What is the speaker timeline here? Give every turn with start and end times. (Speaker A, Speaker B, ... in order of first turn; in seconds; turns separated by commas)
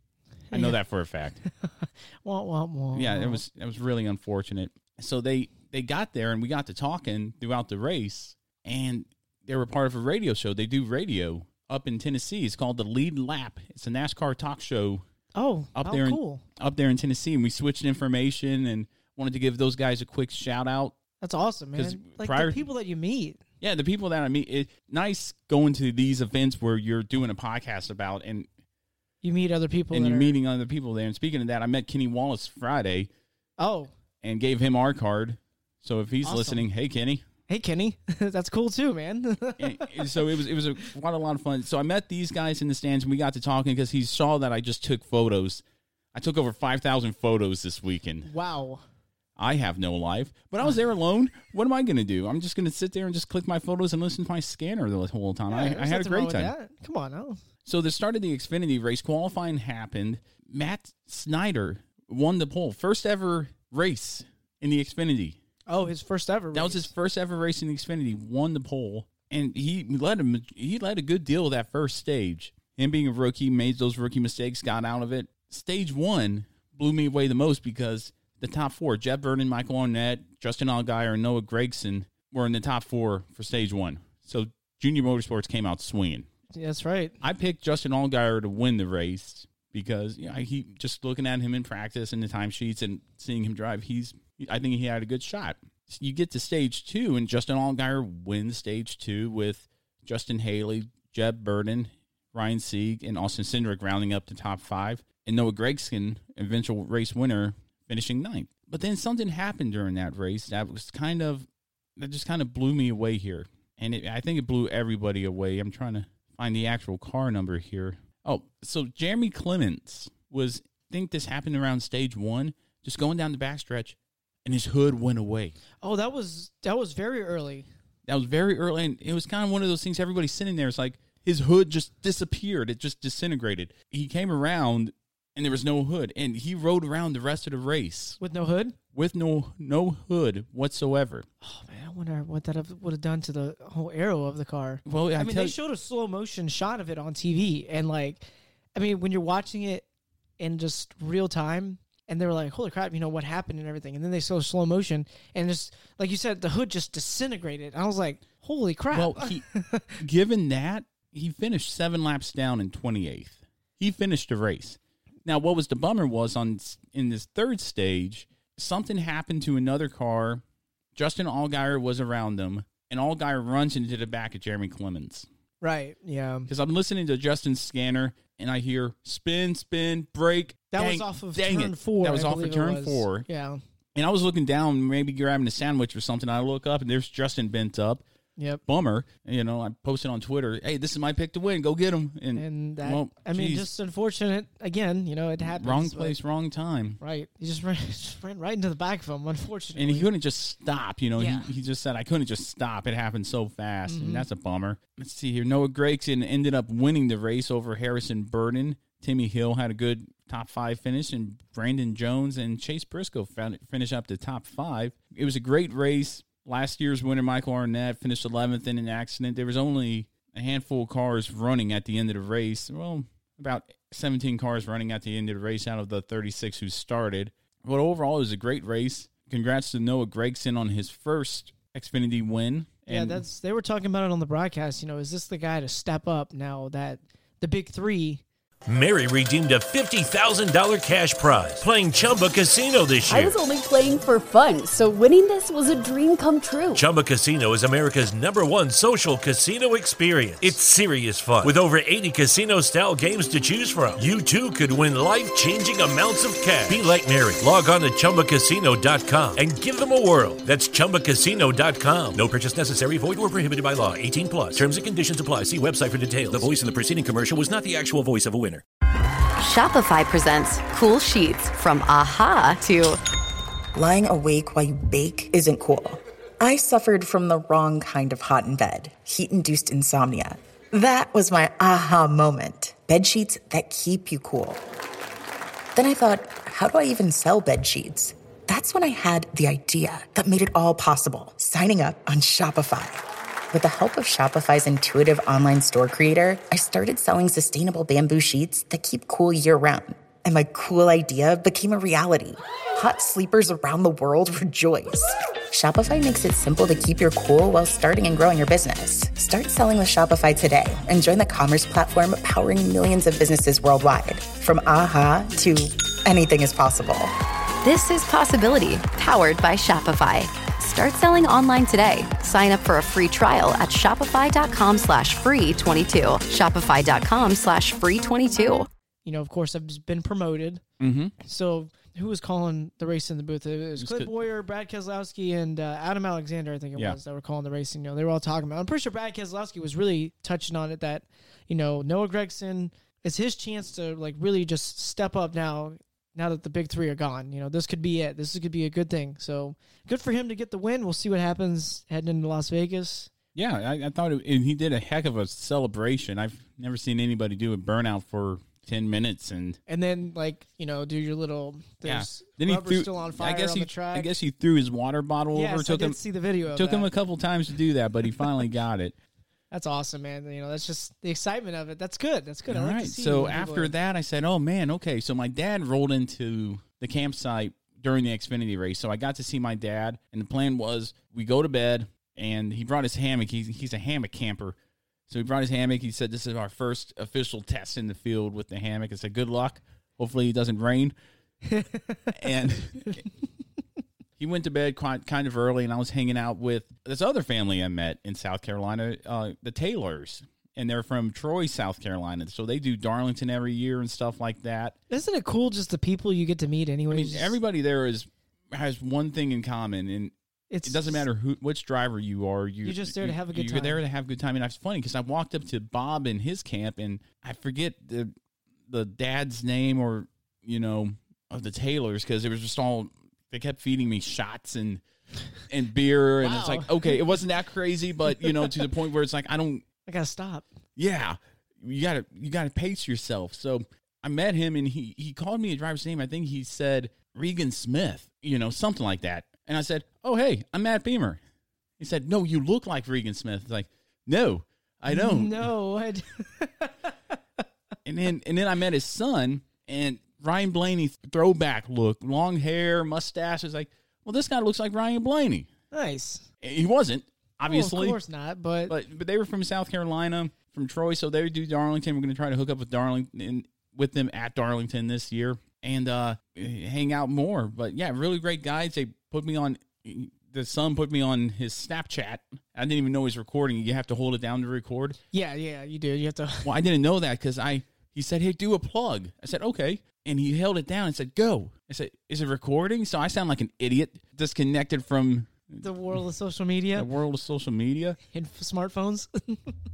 Speaker A: 0.5-0.8, Speaker B: 0.5-1.4, Speaker A: 1.6-3.4, Speaker B: 2.9-15.0, Speaker A: 15.3-16.4, Speaker B: 15.8-20.9, Speaker A: 21.2-23.4, Speaker B: 21.8-22.6, Speaker B: 23.6-28.5, Speaker A: 29.2-30.3, Speaker B: 29.9-33.1, Speaker A: 33.6-33.9, Speaker B: 34.2-37.2, Speaker A: 36.2-36.6, Speaker A: 37.5-40.1, Speaker B: 39.6-45.6, Speaker B: 46.1-48.3, Speaker A: 48.2-48.8, Speaker B: 49.4-56.5, Speaker A: 55.5-57.4, Speaker B: 57.6-65.4, Speaker A: 65.7-66.9, Speaker B: 66.5-86.3, Speaker A: 86.5-87.2, Speaker B: 87.2-125.6, Speaker A: 125.8-127.7, Speaker B: 128.1-138.2, Speaker A: 138.2-138.7, Speaker B: 138.9-141.3, Speaker A: 141.4-149.8, Speaker B: 144.8-145.5, Speaker A: 150.4-159.9, Speaker B: 158.9-159.4, Speaker B: 160.0-170.4, Speaker B: 170.9-175.3, Speaker A: 175.6-176.5, Speaker B: 176.5-183.3, Speaker A: 180.7-183.6, Speaker B: 183.9-188.0, Speaker B: 188.7-193.7, Speaker A: 192.3-196.1, Speaker B: 195.4-197.0, Speaker A: 197.0-200.1, Speaker B: 199.8-233.2, Speaker A: 201.2-201.5, Speaker A: 203.9-204.2, Speaker A: 232.9-238.2, Speaker C: 238.7-243.4, Speaker D: 243.1-246.8, Speaker C: 246.7-268.6, Speaker E: 269.4-273.0, Speaker F: 273.7-284.6, Speaker F: 285.7-317.1, Speaker E: 317.6-328.7, Speaker A: 329.0-330.6, Speaker B: 330.8-331.1, Speaker A: 331.2-353.1, Speaker B: 333.8-334.1, Speaker B: 353.3-359.6, Speaker A: 359.7-364.1, Speaker B: 361.8-368.9, Speaker A: 365.3-366.9, Speaker A: 369.5-373.7, Speaker B: 372.5-384.6, Speaker B: 385.1-390.9, Speaker A: 391.5-392.1, Speaker B: 392.2-393.0, Speaker B: 394.2-404.8, Speaker A: 404.9-407.3, Speaker B: 406.9-410.1, Speaker A: 410.5-411.0, Speaker B: 410.6-418.1, Speaker A: 412.6-413.8, Speaker B: 418.7-424.8, Speaker B: 425.5-429.6, Speaker A: 426.2-427.0, Speaker A: 429.9-430.5, Speaker B: 430.8-441.2, Speaker B: 441.8-445.5, Speaker A: 444.9-446.9, Speaker B: 447.9-455.5, Speaker A: 455.7-456.2, Speaker B: 456.4-458.0, Speaker A: 457.5-458.7, Speaker B: 458.7-475.0, Speaker A: 475.1-476.5, Speaker B: 476.4-486.0, Speaker A: 485.6-486.9, Speaker B: 486.7-488.0, Speaker A: 488.1-489.5